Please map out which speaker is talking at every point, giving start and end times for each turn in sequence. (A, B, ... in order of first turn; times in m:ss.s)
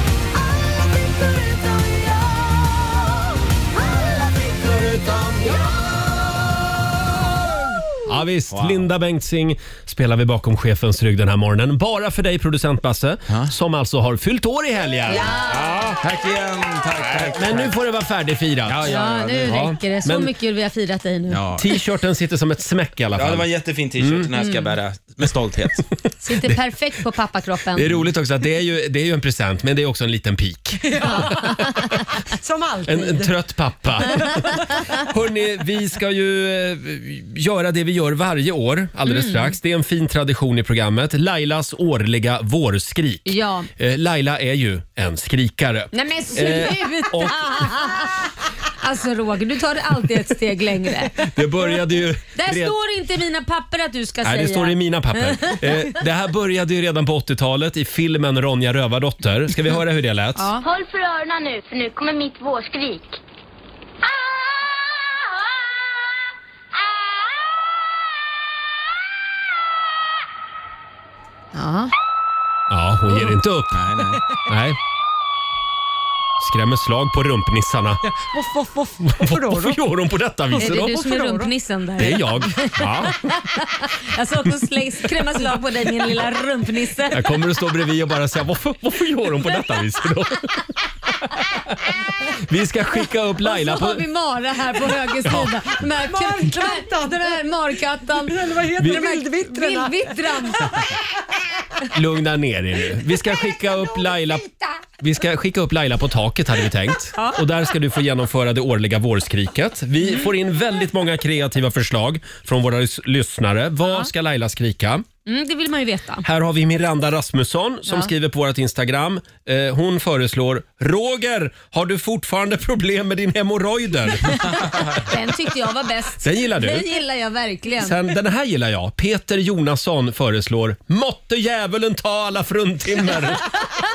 0:08.0-0:15.9 A
0:08.5-0:08.9 B
0:15.1-0:15.8 C
0:15.5-0:17.7 B
0:17.1-0:18.9 A
0:18.7-0:19.6 B
0:18.9-0:21.4 C
0:19.4-0:20.3 A
0:21.3-0:21.7 B
0:21.6-0:23.5 A
0:23.1-0:25.8 B
0:24.0-0:24.3 A
0:26.2-0:27.9 C
0:27.8-0:31.5 A
0:30.9-0:31.4 D
0:31.0-0:31.5 C
0:32.4-0:33.3 D
0:32.9-0:47.7 A
0:39.1-0:39.5 C
0:43.2-0:43.7 C
0:45.9-0:51.2 C
0:51.2-0:52.8 A
0:52.3-0:55.9 C
0:54.2-1:00.5 A
1:00.4-1:00.6 C
1:00.6-1:03.2 E
1:11.5-1:11.9 C
1:12.7-1:13.9 A
1:13.7-1:14.2 B
1:14.4-1:14.8 A
1:16.4-1:18.0 A
1:18.2-1:19.8 D
1:19.0-1:21.0 A
1:20.5-1:27.2 C
1:20.7-1:21.5 D
1:22.0-1:23.2 A
1:27.1-1:30.7 A
1:32.5-1:34.0 A
1:33.4-1:40.8 C
1:35.2-1:35.7 A
1:36.0-1:37.1 D
1:38.3-1:40.9 D
1:41.9-1:44.4 A
1:45.0-1:55.0 A
1:55.2-1:56.2 C
1:56.2-2:04.6 A
2:04.8-2:08.0 C
2:06.2-2:06.9 A
2:07.8-2:13.6 A